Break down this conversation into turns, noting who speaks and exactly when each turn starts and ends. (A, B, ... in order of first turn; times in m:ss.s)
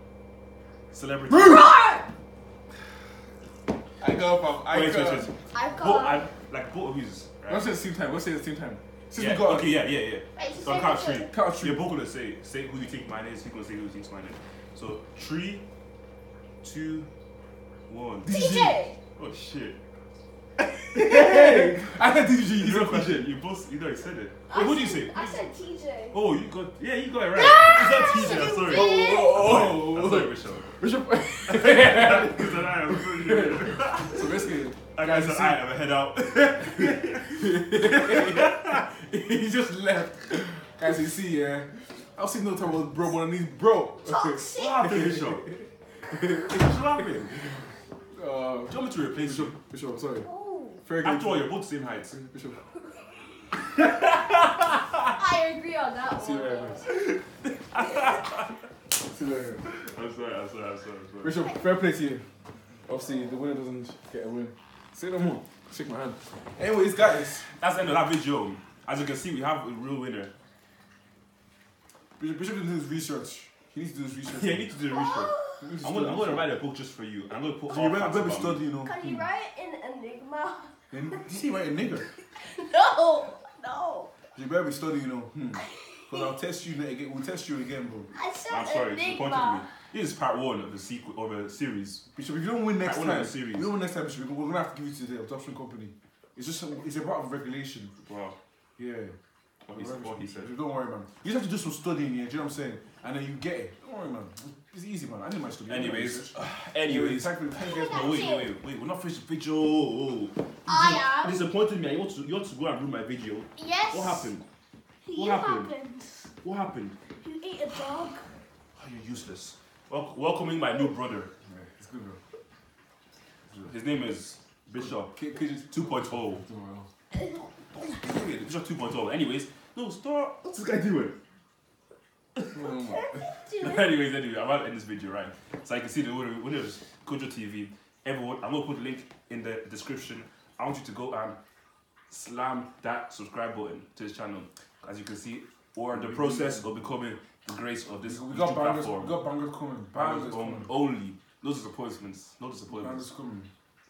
0:00.9-0:01.6 A
0:01.3-0:01.6 B
0:01.3-0:02.1 C
0:04.0-0:05.3 B
0:04.7-0:07.7 A
0:05.5-0:06.2 C
0:07.5-0:09.8 B
0:09.1-0:15.6 A
0:10.3-0:11.3 C
0:11.3-0:11.9 B
0:16.6-0:17.1 A
0:17.9-0:18.3 A
0:18.2-0:18.8 B
0:18.3-0:19.0 C
0:19.2-0:19.8 A
0:20.6-0:23.3 B
0:20.9-0:21.9 A
0:22.5-0:25.5 A
0:24.5-0:26.2 C
0:26.1-0:30.8 A
0:27.3-0:29.4 C
0:28.6-0:35.6 B
0:31.4-0:34.3 A
0:34.9-0:38.8 A
0:36.8-0:46.7 B
0:44.0-0:45.0 C
0:44.5-0:45.5 A
0:46.4-0:47.6 A
0:48.1-0:50.3 B
0:48.7-0:49.5 A
0:50.2-0:50.8 C
0:50.8-0:52.7 B
0:51.0-0:52.1 A
0:53.6-0:55.1 A
0:55.1-0:56.8 C
0:56.2-0:56.9 B
0:56.9-0:58.5 A
0:59.0-0:59.6 B
0:59.6-1:01.4 A
1:01.2-1:02.3 B
1:02.8-1:07.5 B
1:07.4-1:10.3 A
1:12.2-1:14.7 B
1:14.2-1:18.6 A
1:14.9-1:15.7 C
1:15.6-1:16.5 B
1:17.7-1:19.3 B
1:18.8-1:21.2 C
1:20.9-1:22.1 B
1:22.3-1:24.1 C
1:24.3-1:28.1 B
1:25.6-1:26.3 C
1:28.1-1:29.7 C
1:28.5-1:32.1 A
1:32.1-1:37.9 B
1:32.8-1:33.7 A
1:38.0-1:38.4 A
1:38.8-1:39.2 B
1:39.6-1:40.5 A
1:39.7-1:48.3 B
1:45.7-1:54.4 A
1:47.5-1:48.5 C
1:50.6-1:51.4 C
1:53.6-1:54.3 C
1:55.0-1:56.3 C
1:55.1-1:55.7 A
1:56.4-1:57.0 A
1:57.2-1:58.3 C
1:58.8-2:01.3 A
2:01.5-2:02.2 B
2:03.6-2:05.2 A
2:04.8-2:06.9 B
2:05.7-2:06.5 A
2:07.7-2:11.2 A
2:12.5-2:13.3 B
2:12.6-2:13.9 C
2:13.6-2:21.4 A
2:22.1-2:29.2 A
2:25.9-2:26.7 B
2:28.0-2:30.7 B
2:29.9-2:33.1 A
2:32.7-2:33.5 B